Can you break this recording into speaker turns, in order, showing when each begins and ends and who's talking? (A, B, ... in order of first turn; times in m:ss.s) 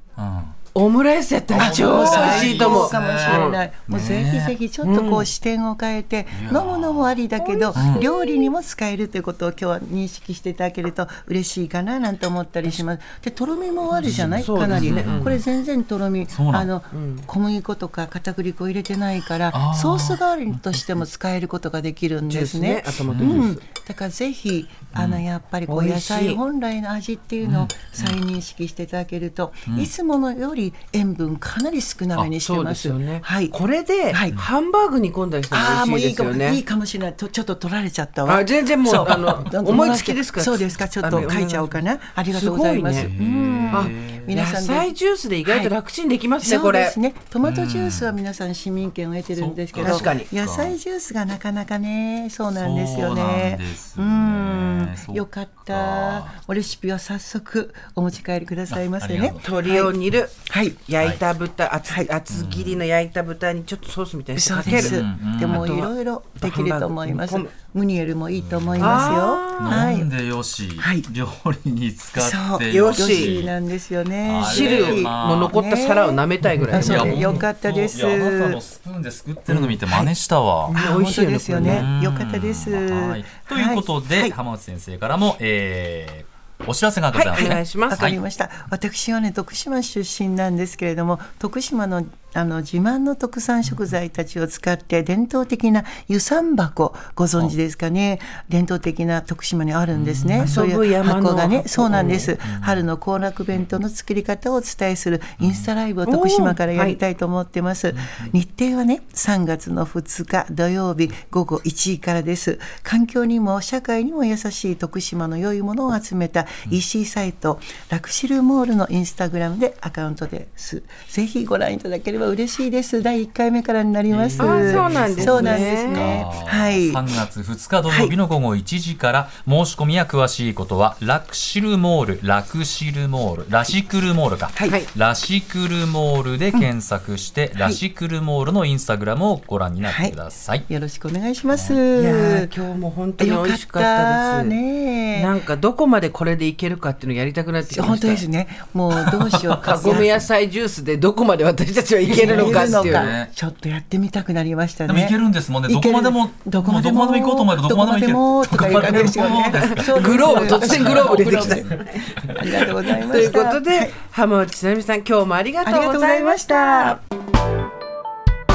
0:00.2-0:00.5 A
0:00.7-0:03.6 B
0:01.5-0:04.6 A
0:01.6-0:33.6 C
0:04.8-0:05.3 B
0:06.3-0:07.2 A
0:07.4-0:08.5 B
0:07.8-0:08.1 A
0:13.9-0:15.4 A
0:14.3-0:15.4 B
0:16.3-0:16.7 A
0:16.9-0:17.3 B
0:19.5-0:21.0 A
0:22.3-0:23.6 B
0:23.1-0:23.5 A
0:24.9-0:25.2 A
0:25.7-0:26.4 B
0:27.4-0:28.2 A
0:32.4-0:36.6 B
0:34.1-0:34.4 C
0:35.5-0:44.9 C
0:38.3-0:43.1 B
0:38.9-0:39.7 A
0:41.1-0:41.3 A
0:42.9-0:44.3 A
0:43.7-0:47.0 B
0:45.5-0:45.7 C
0:46.4-1:00.9 C
0:47.4-0:48.2 A
0:49.4-0:50.8 A
0:49.8-0:50.3 B
0:52.5-0:56.4 A
0:58.7-0:59.4 A
0:59.4-1:07.5 B
1:01.9-1:02.1 C
1:02.3-1:02.8 A
1:04.4-1:10.1 C
1:04.6-1:05.8 A
1:08.3-1:13.6 A
1:08.8-1:09.8 B
1:10.8-1:11.1 C
1:12.2-1:18.6 C
1:12.7-1:13.4 B
1:14.2-1:15.6 A
1:14.4-1:17.4 B
1:16.6-1:20.8 A
1:19.5-1:19.8 B
1:20.7-1:24.4 C
1:20.7-1:21.9 B
1:21.6-1:28.2 A
1:27.2-1:28.1 B
1:27.2-2:07.2 C
1:39.9-1:40.7 A
1:40.4-1:42.3 B
1:41.9-1:42.8 A
1:45.4-1:45.7 A
1:46.1-1:47.0 B
1:47.9-1:48.3 A
2:04.1-2:20.6 A
2:04.4-2:06.1 B
2:07.8-2:08.2 C
2:19.8-2:22.5 C
2:21.5-2:21.8 A
2:21.9-2:24.6 B
2:23.2-2:25.3 C
2:25.2-2:28.2 B
2:27.7-2:30.2 C
2:29.0-2:30.2 A
2:29.6-2:33.1 B
2:32.1-2:33.3 A
2:32.1-2:41.8 C
2:34.9-2:43.0 A
2:39.6-2:47.0 B
2:42.3-2:43.9 C
2:45.6-2:47.0 C